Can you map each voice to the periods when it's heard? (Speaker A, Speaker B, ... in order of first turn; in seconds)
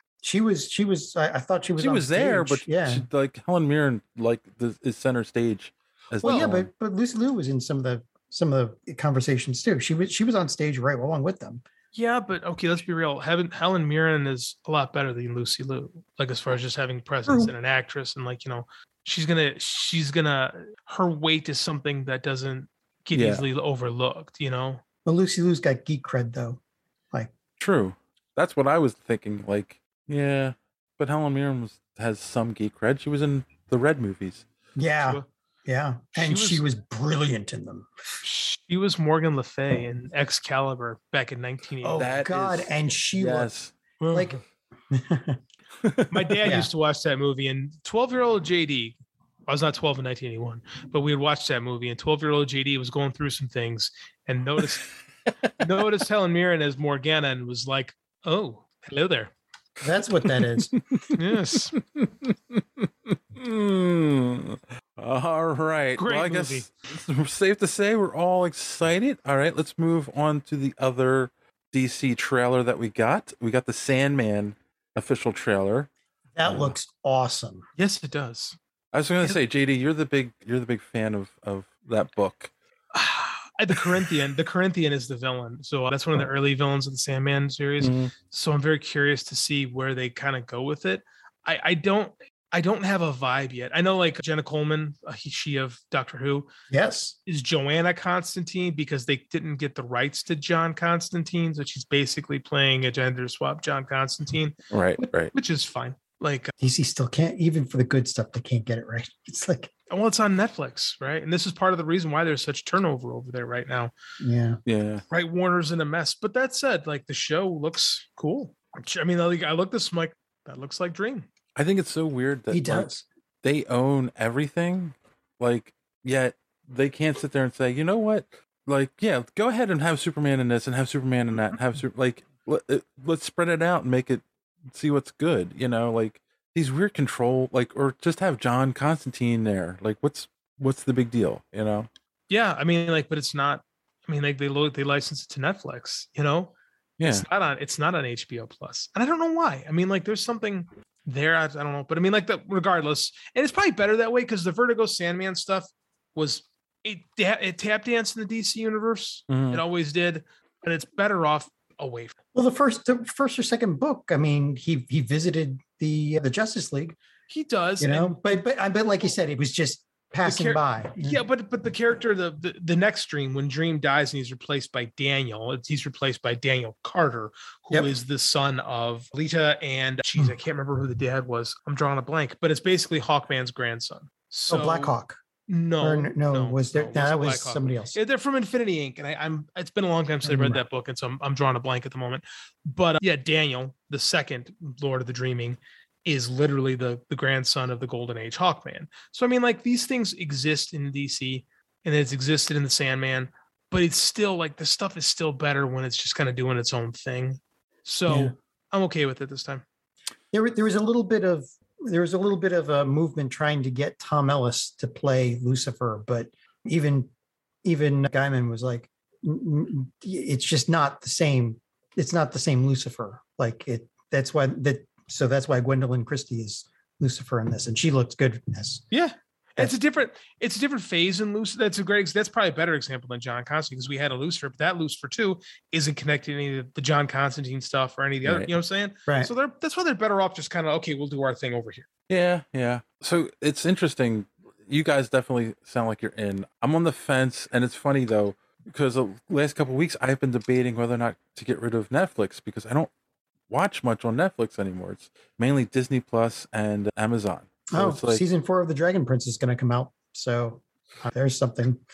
Speaker A: 0.2-3.0, 6.2-11.6, 17.3-17.5, 25.0-26.6, 34.8-37.9, 41.8-43.5, 44.1-44.4, 44.9-45.4, 59.8-60.7, 76.3-77.6, 96.7-97.2, 106.6-109.7, 114.2-114.6, 122.5-123.0, 162.3-166.9, 167.8-171.2, 184.5-185.2, 185.8-187.9, 190.2-190.6, 208.1-208.3, 210.3-217.1, 217.6-228.8, 257.7-261.8
Speaker B: 1.8-6.7, 23.1-23.4, 27.6-34.5, 42.0-43.7, 45.8-46.1, 61.0-75.9, 76.4-76.7, 78.9-82.5, 87.8-88.1, 104.7-105.3, 114.7-115.0, 121.5-122.9, 123.4-141.9, 147.0-147.2, 159.3-159.6, 238.2-238.5, 242.1-252.9, 253.5-258.2
Speaker C: 6.2-6.5, 11.9-24.8, 36.1-36.6, 38.2-42.0, 44.0-44.4, 46.1-54.8, 55.6-59.3, 61.1-61.7, 66.0-66.7, 77.8-78.5, 82.9-96.5, 97.2-104.5, 105.3-106.5, 109.9-113.9, 115.1-121.3, 142.3-146.5, 147.1-162.1, 167.3-168.3, 170.2-184.9, 185.5-209.6, 228.9-241.8